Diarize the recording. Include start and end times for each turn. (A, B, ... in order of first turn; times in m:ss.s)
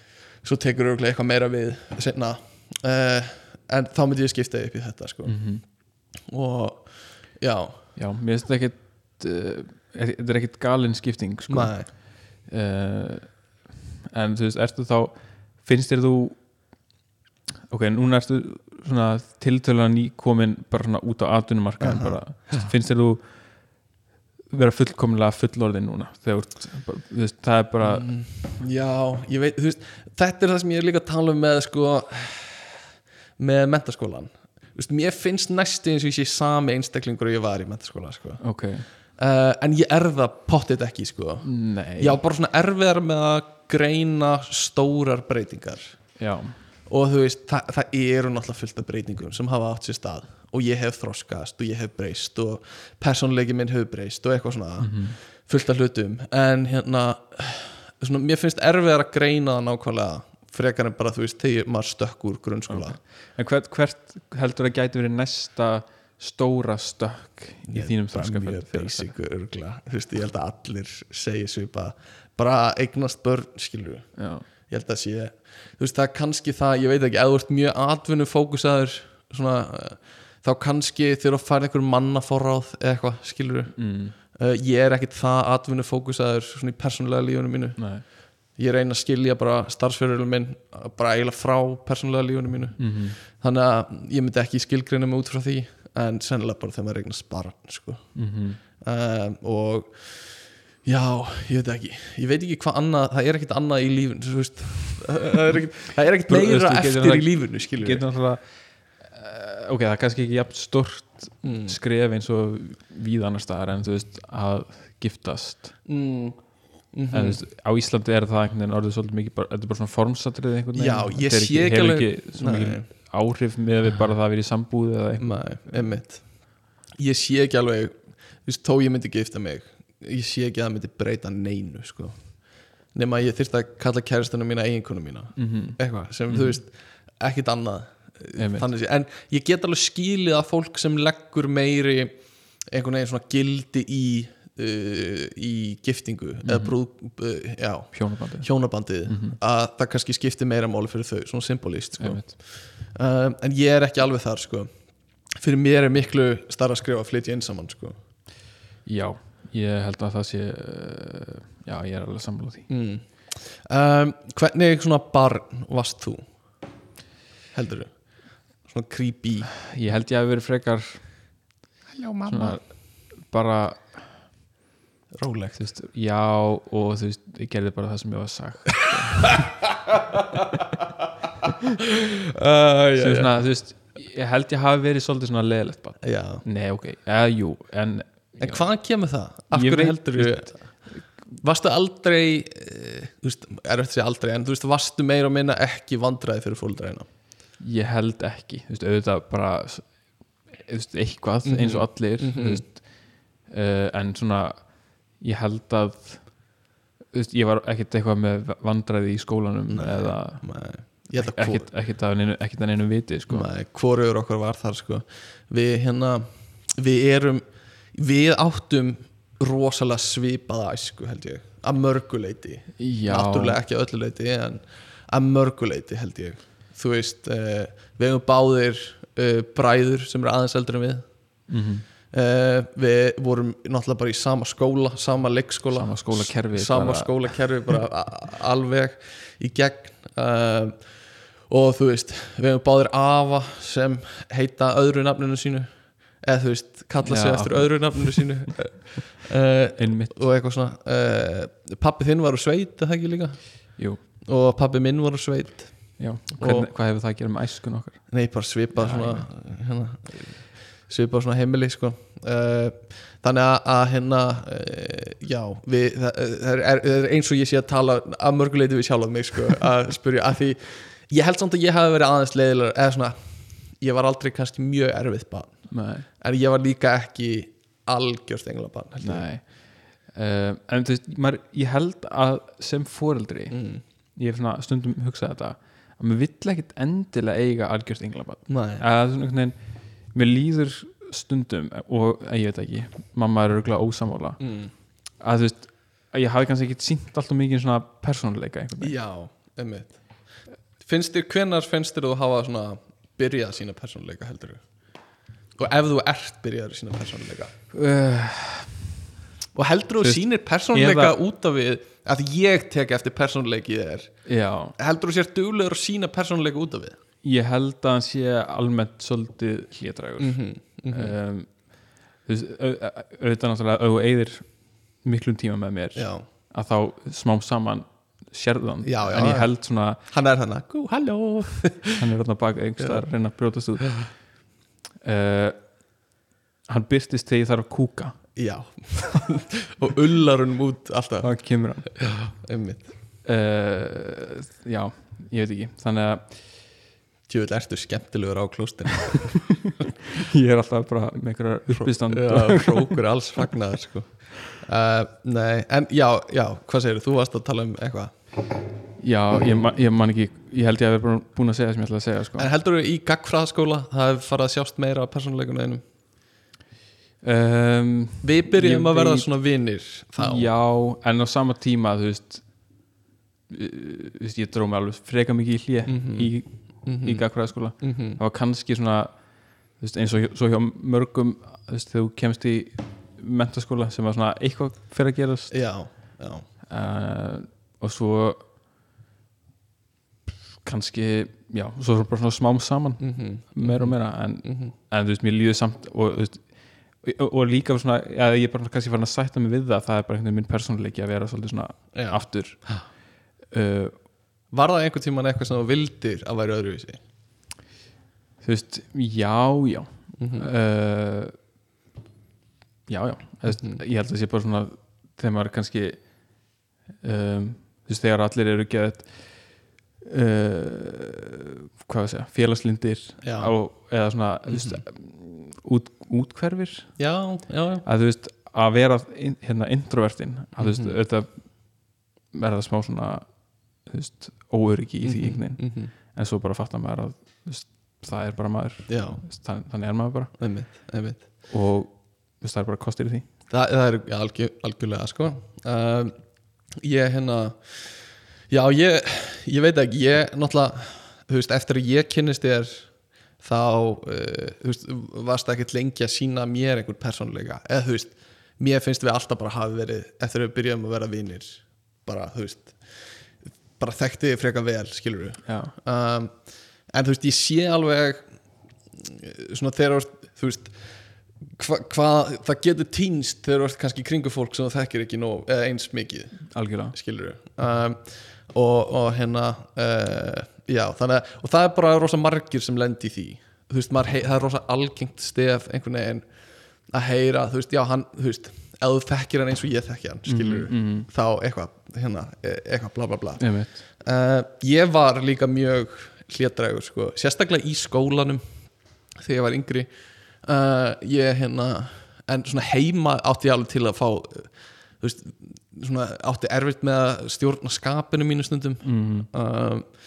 0:00.4-0:05.4 A
0:05.2-0:05.6 B
0:06.3-0:07.8 A
0:08.0-0:13.4 B
0:11.5-0:11.9 A
0:14.1-0:16.4 B
0:17.7-0:23.3 B
0:21.8-0:22.7 A
0:24.5-0:28.1 B
0:27.8-0:32.8 A
0:33.4-0:38.4 A
0:38.4-0:38.9 B
0:39.2-0:46.0 A
0:41.4-0:42.2 B
0:46.2-0:46.6 B
0:46.9-1:03.0 A
0:54.8-0:55.2 B
1:02.7-1:09.1 B
1:07.7-1:27.9 A
1:14.2-1:14.4 B
1:23.8-1:24.1 B
1:27.8-1:28.0 B
1:28.6-1:38.0 A
1:32.8-1:33.2 B
1:38.1-1:38.6 B
1:38.8-1:48.0 A
1:46.3-1:48.4 B
1:49.0-1:55.8 B
1:51.4-1:51.8 A
1:55.8-1:56.4 A
1:56.9-1:57.4 A
1:57.1-2:05.8 B
2:00.7-2:02.8 A
2:05.2-2:06.2 A
2:06.9-2:12.2 A
2:12.9-2:34.7 A
2:15.4-2:15.8 B
2:16.3-2:16.6 B
2:18.4-2:18.7 B
2:26.4-2:26.7 B
2:27.9-2:28.5 B
2:29.1-2:29.4 B
2:32.0-2:32.3 B
2:35.4-2:38.0 A
2:38.8-2:42.7 B
2:42.7-2:46.2 A
2:47.5-2:48.0 A
2:48.6-2:49.5 A
2:49.6-2:51.0 B
2:51.9-2:52.6 A
2:52.3-2:54.0 B
2:55.1-2:55.6 A
2:55.6-2:59.5 B
2:59.9-3:00.8 A
3:02.3-3:03.4 A
3:03.0-3:08.6 B
3:06.0-3:06.4 A
3:08.4-3:10.6 A
3:09.5-3:11.0 B
3:11.4-3:17.1 A
3:17.6-3:20.0 B
3:20.6-3:26.4 B
3:21.4-3:22.6 A
3:27.1-3:30.4 B
3:29.7-3:31.7 A
3:31.0-3:33.5 B
3:33.3-3:51.1 A
3:42.8-3:43.6 B
3:51.5-3:51.8 B
3:52.1-4:00.8 A
3:55.7-3:57.4 B
4:01.5-4:05.7 A
4:06.2-4:16.7 A
4:07.0-4:08.2 B
4:09.8-4:10.2 B
4:13.8-4:14.0 B
4:16.0-4:18.1 B
4:18.1-4:33.2 A
4:18.7-4:19.2 B
4:33.8-4:39.2 A
4:35.7-4:36.0 B
4:39.0-4:43.6 B
4:43.5-4:43.8 A
4:44.2-4:49.5 B
4:48.5-4:48.8 A
4:50.1-4:54.4 B
4:54.4-4:54.7 A
4:55.2-4:58.9 B
4:58.8-5:00.0 A
5:00.8-5:04.6 A
5:05.6-5:07.5 A
5:07.7-5:08.8 B
5:09.5-5:14.2 A
5:10.0-5:11.2 B
5:14.2-5:14.8 B
5:14.8-5:17.0 A
5:17.2-5:20.4 B
5:20.2-5:21.1 A
5:20.9-5:24.4 B
5:25.0-5:30.0 B
5:26.0-5:26.2 A
5:28.8-5:32.0 A
5:32.0-5:34.1 B
5:35.0-5:35.6 B
5:36.7-5:38.2 B
5:38.4-5:41.3 A
5:41.2-5:41.9 B
5:41.9-5:42.9 A
5:43.2-5:46.3 B
5:47.3-5:49.7 A
5:50.1-5:53.0 B
5:51.7-5:58.1 A
5:59.0-6:02.5 B
6:02.4-6:05.8 A
6:07.2-6:09.3 B
6:08.2-6:10.5 A
6:10.2-6:12.4 B
6:13.5-6:25.6 B
6:15.8-6:18.2 A
6:25.5-6:26.4 A
6:26.7-6:28.4 B
6:30.6-6:42.7 B
6:33.0-6:34.7 A
6:41.9-6:42.8 A
6:43.5-6:43.9 B
6:44.5-6:47.0 A
6:48.4-6:51.3 B
6:50.2-6:50.5 A
6:52.9-6:56.0 B
6:53.5-6:53.8 A
6:57.0-6:59.2 B
7:00.0-7:07.0 B
7:03.2-7:03.5 A
7:04.5-7:04.8 A
7:07.0-7:07.8 A
7:07.8-7:11.8 B
7:10.6-7:11.0 A
7:12.3-7:13.2 B
7:13.8-7:20.3 B
7:15.0-7:15.9 A
7:18.9-7:19.2 A
7:20.4-7:21.2 A
7:21.5-7:23.2 B
7:23.5-7:26.1 A
7:26.8-7:28.0 A
7:28.5-7:32.9 A
7:33.4-7:42.8 A
7:43.8-7:46.4 A
7:45.4-7:45.7 B
7:46.9-7:48.2 A
7:49.0-7:50.7 A
7:51.5-7:56.4 A
7:56.5-7:57.0 B
7:56.9-7:58.0 A
7:58.5-8:06.2 A
8:06.9-8:18.4 A
8:10.3-8:11.1 B
8:13.4-8:13.8 B
8:19.2-8:19.9 A
8:20.4-8:24.5 A
8:25.0-8:29.8 A
8:28.8-8:29.3 B